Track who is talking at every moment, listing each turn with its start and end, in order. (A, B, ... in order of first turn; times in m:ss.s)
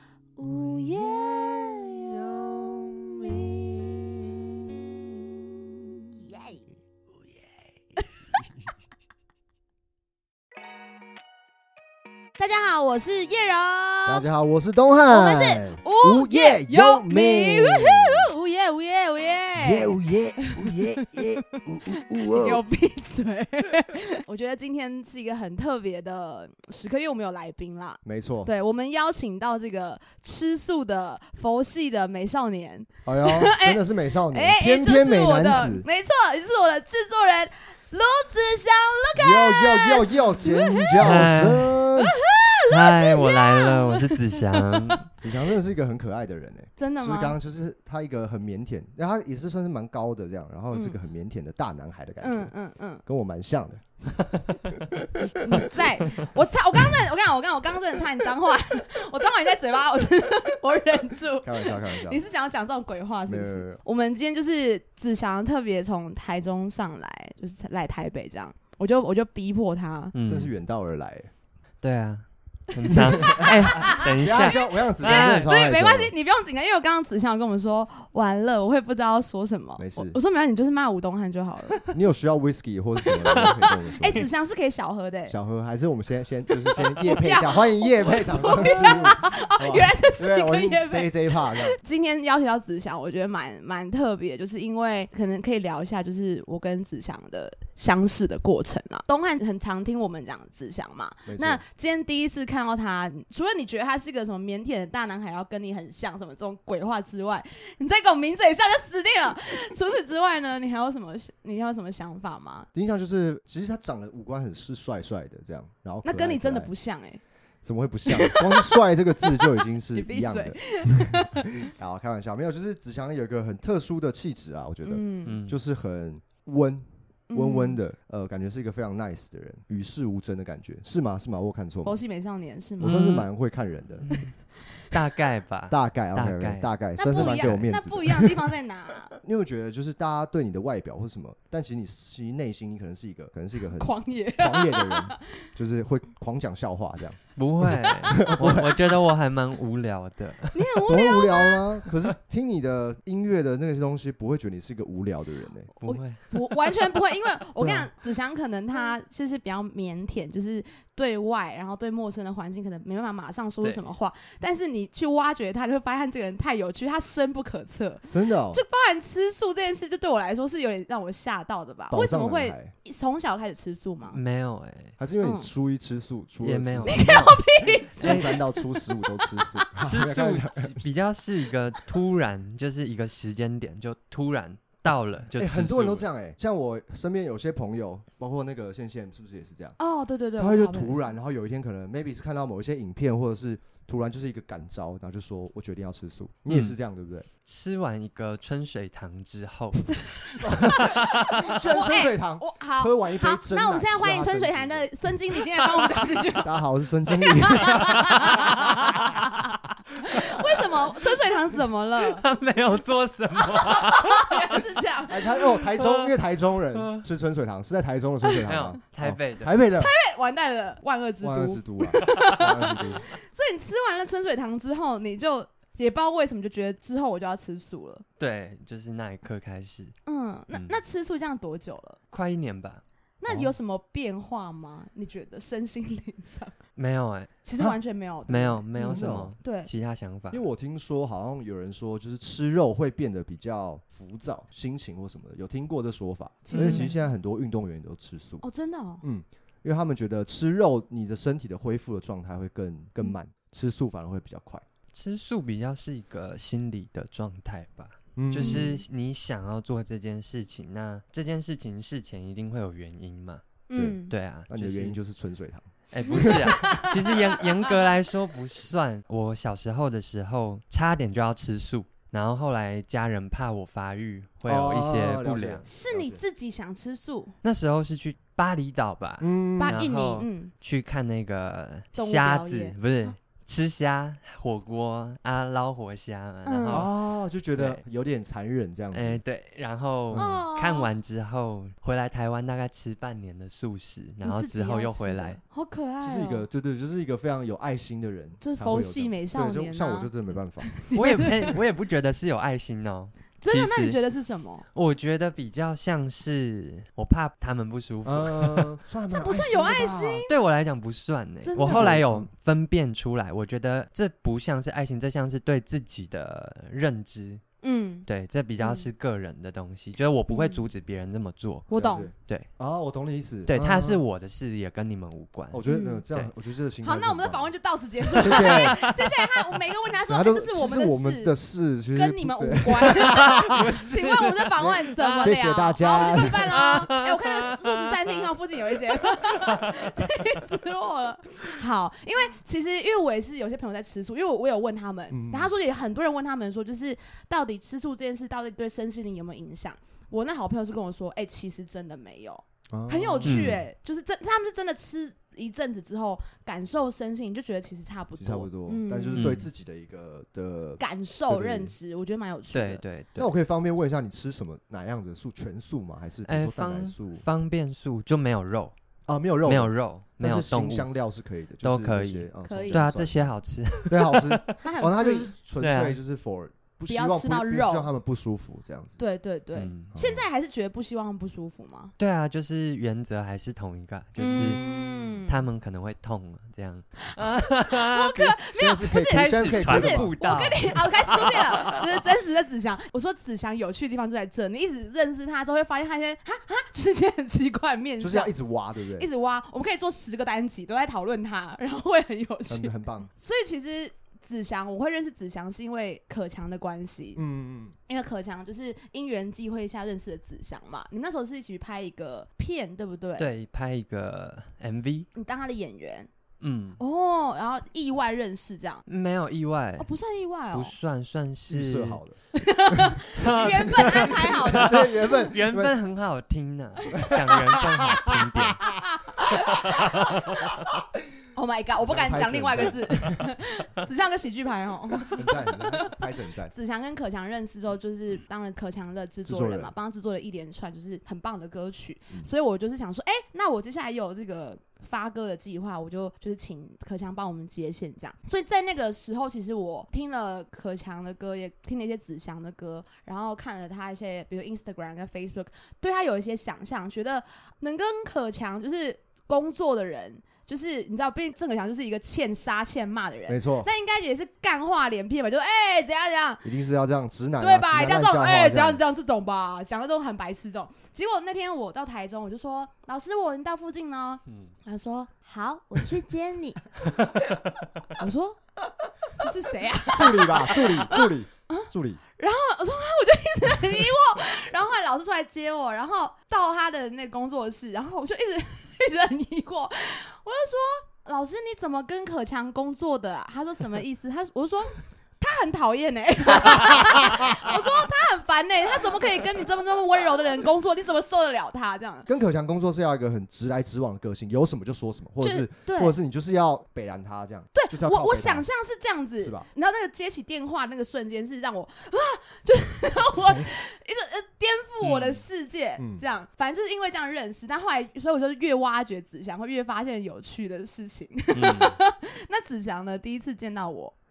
0:00.4-0:01.8 A
0:00.4-0:06.1 B
0:06.3-0:06.6 A
0:12.4-0:14.2 A
0:14.1-0:18.3 B
0:15.1-0:41.0 A
0:19.6-0:22.6 B
0:28.0-0:28.5 B
0:33.0-0:35.8 B
0:39.1-0:42.1 B
0:41.0-0:41.9 C
0:42.0-0:45.1 A
0:42.7-0:45.1 C
0:45.2-0:52.5 B
0:46.8-0:47.4 A
0:50.7-0:51.0 A
0:52.2-0:53.0 A
0:53.0-0:55.7 B
0:55.4-1:10.1 A
1:01.4-1:02.2 B
1:03.3-1:03.8 B
1:10.1-1:10.5 C
1:10.2-1:11.3 B
1:11.8-1:15.5 C
1:12.8-1:21.8 A
1:12.9-1:16.1 B
1:19.8-1:20.2 B
1:21.8-1:24.3 B
1:23.1-1:25.4 A
1:25.3-1:31.8 B
1:26.7-1:52.7 A
1:41.3-1:41.6 B
1:52.7-1:56.7 B
1:56.0-1:57.2 A
1:57.6-2:12.0 B
1:58.1-2:01.6 A
2:04.8-2:05.4 A
2:05.2-2:05.6 C
2:07.3-2:07.8 A
2:11.8-2:13.1 A
2:12.8-2:14.0 B
2:12.8-2:13.3 C
2:14.0-2:17.6 C
2:15.7-2:18.5 B
2:17.0-2:19.1 A
2:19.2-2:28.8 B
2:23.7-2:25.5 A
2:27.4-2:30.6 C
2:27.8-2:28.7 A
2:30.5-2:31.6 A
2:30.8-2:35.7 B
2:35.8-2:54.2 A
2:35.8-2:36.9 C
2:37.6-2:37.9 B
2:48.1-2:48.6 B
2:51.9-2:52.7 B
2:54.1-2:54.9 C
2:55.0-2:57.2 B
2:55.2-2:55.5 A
2:56.4-2:57.4 C
2:56.8-2:59.6 A
2:57.9-3:00.8 B
2:58.0-2:58.4 C
2:59.8-3:06.0 C
3:05.3-3:09.8 B
3:09.8-3:11.1 A
3:10.4-3:17.3 B
3:16.5-3:16.8 C
3:17.4-3:20.5 C
3:20.4-3:24.9 B
3:20.6-3:26.6 A
3:21.2-3:21.5 C
3:26.4-3:28.5 B
3:27.1-3:32.3 A
3:27.6-3:29.6 C
3:30.1-3:30.4 C
3:32.0-3:34.5 C
3:33.4-3:35.7 A
3:35.1-3:39.9 B
3:35.7-3:36.1 C
3:36.7-3:37.0 C
3:38.4-3:39.6 C
3:39.8-3:48.0 A
3:41.2-3:43.0 B
3:42.1-3:42.7 C
3:48.2-3:49.9 C
3:50.0-3:52.0 A
3:50.5-3:50.8 C
3:52.1-3:52.8 C
3:53.2-3:56.5 A
3:53.2-3:53.5 B
3:56.8-3:57.4 C
3:57.4-3:59.7 A
3:58.3-4:00.4 C
3:58.8-3:59.3 B
4:00.3-4:08.4 B
4:06.4-4:07.0 A
4:06.5-4:06.9 C
4:08.4-4:09.0 A
4:09.0-4:14.6 B
4:14.9-4:23.4 C
4:18.2-4:18.7 B
4:18.4-4:18.8 A
4:23.7-4:24.1 A
4:23.7-4:26.7 B
4:24.1-4:25.0 C
4:25.9-4:35.6 C
4:26.1-4:27.6 A
4:34.4-4:36.2 B
4:35.6-4:37.4 A
4:37.4-4:46.9 C
4:39.2-4:39.8 B
4:39.6-4:40.5 A
4:41.9-4:43.1 A
4:46.4-4:46.9 A
4:46.7-4:49.2 B
4:47.5-4:47.8 C
4:48.9-4:55.4 C
4:50.1-4:50.4 B
4:50.1-4:50.9 A
4:54.2-4:56.5 A
4:56.0-5:00.7 B
4:58.4-5:00.1 A
5:00.6-5:01.5 A
5:00.9-5:04.0 C
5:03.4-5:04.6 A
5:04.7-5:08.7 C
5:08.0-5:10.2 B
5:09.1-5:10.3 A
5:10.3-5:17.4 C
5:11.4-5:12.0 A
5:11.6-5:12.3 B
5:17.6-5:18.1 A
5:18.0-5:21.7 C
5:18.6-5:18.9 A
5:20.3-5:20.6 A
5:21.7-5:22.1 A
5:21.7-5:24.0 B
5:22.2-5:22.5 C
5:23.5-5:26.3 C
5:25.5-5:27.5 B
5:25.7-5:26.0 A
5:26.8-5:31.3 A
5:28.2-5:29.0 C
5:28.2-5:28.8 B
5:30.1-5:33.7 B
5:31.9-5:59.2 A
5:33.4-5:35.3 C
5:34.6-5:36.5 B
5:36.0-5:38.1 C
5:45.1-5:45.5 B
5:52.7-5:53.6 B
5:53.2-5:53.6 C
5:58.2-6:01.7 B
5:59.1-5:59.5 C
6:00.8-6:02.8 A
6:02.5-6:03.3 C
6:03.2-6:07.2 B
6:06.3-6:08.7 C
6:09.1-6:13.3 B
6:09.4-6:10.9 C
6:11.6-6:14.6 C
6:12.4-6:12.9 A
6:13.8-6:19.0 B
6:14.6-6:15.3 A
6:15.6-6:16.0 C
6:16.9-6:17.9 A
6:19.0-6:21.9 A
6:19.5-6:19.9 C
6:19.9-6:20.2 B
6:22.0-6:24.6 C
6:24.2-6:25.4 A
6:24.3-6:25.1 B
6:25.2-6:32.0 C
6:27.0-6:38.3 A
6:28.5-6:30.1 B
6:38.0-6:39.1 B
6:39.0-6:47.2 A
6:42.5-6:43.1 B
6:47.2-6:47.8 B
6:47.9-6:53.3 A
6:53.2-6:55.1 C
6:55.1-6:56.1 A
6:56.4-6:56.8 C
6:56.8-6:58.8 A
6:58.9-6:59.9 C
6:59.8-7:00.7 A
7:00.5-7:02.0 C
7:01.5-7:02.2 B
7:02.3-7:05.1 A
7:02.7-7:05.8 B
7:03.1-7:08.7 C
7:06.8-7:07.2 A
7:07.0-7:08.6 B
7:08.6-7:10.5 A
7:09.4-7:10.5 C
7:09.9-7:10.7 B
7:11.3-7:16.0 A
7:11.8-7:13.2 B
7:15.1-7:16.5 B
7:16.5-7:46.4 A
7:19.2-7:19.7 B
7:43.3-7:43.7 B
7:46.4-7:48.8 B
7:47.4-7:56.7 A
7:54.3-7:54.5 C
7:56.8-7:57.8 C
7:58.0-7:58.4 A
7:59.2-8:22.1 A
7:59.9-8:02.0 B
8:16.9-8:17.5 B
8:22.1-8:28.4 B
8:25.2-8:25.9 A
8:27.5-8:43.9 A
8:29.2-8:29.5 B
8:33.1-8:33.5 B
8:34.8-8:35.2 C
8:35.8-8:36.0 B
8:41.3-8:41.8 C